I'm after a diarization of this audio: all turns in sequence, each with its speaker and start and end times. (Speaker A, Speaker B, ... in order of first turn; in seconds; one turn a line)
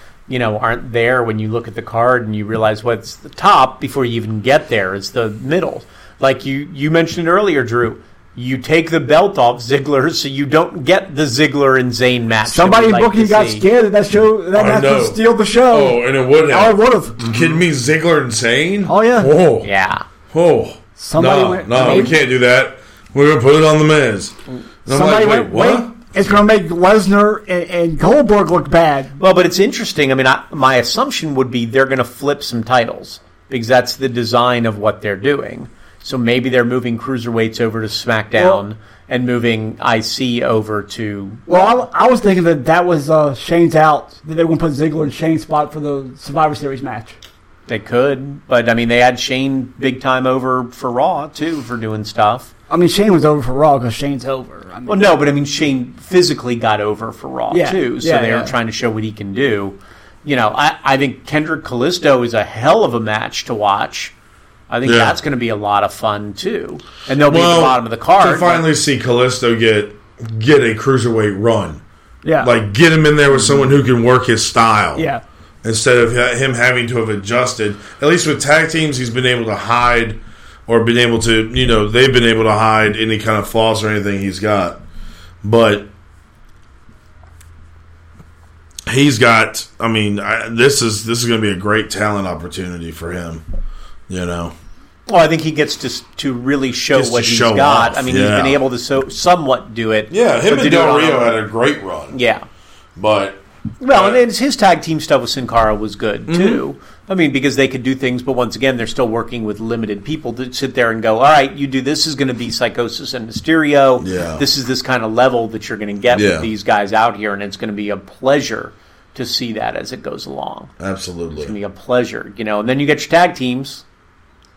Speaker A: 0.3-13.7
Speaker B: 12.5-17.2
Speaker C: 14.5-19.7
Speaker A: 17.2-17.6
Speaker B: 18.9-19.3
Speaker A: 19.6-20.1
Speaker C: 20.3-24.4
Speaker B: 21.0-22.2
Speaker A: 21.8-22.1
Speaker C: 24.9-25.9
Speaker B: 24.9-29.2
Speaker A: 29.2-41.8
Speaker B: 38.4-38.6
Speaker B: 41.5-47.1
Speaker A: 47.7-52.5
Speaker B: 52.7-55.2
Speaker A: 54.9-64.1
Speaker B: 57.5-58.5
Speaker A: 64.7-68.7
Speaker C: 64.8-65.2
Speaker C: 67.2-71.8
Speaker B: 72.2-72.5
Speaker C: 72.4-75.1
Speaker B: 75.0-75.2
Speaker C: 75.6-84.8
Speaker C: 85.4-85.9
Speaker C: 88.9-93.5
Speaker C: 94.1-94.5
Speaker A: 95.1-101.4
Speaker C: 96.9-98.6
Speaker C: 100.1-102.2
Speaker A: 102.1-102.5
Speaker C: 103.0-104.2
Speaker A: 103.8-120.7
Speaker C: 106.3-106.6
Speaker C: 114.0-114.5
Speaker C: 116.1-116.5
Speaker C: 120.8-121.5
Speaker A: 121.4-123.8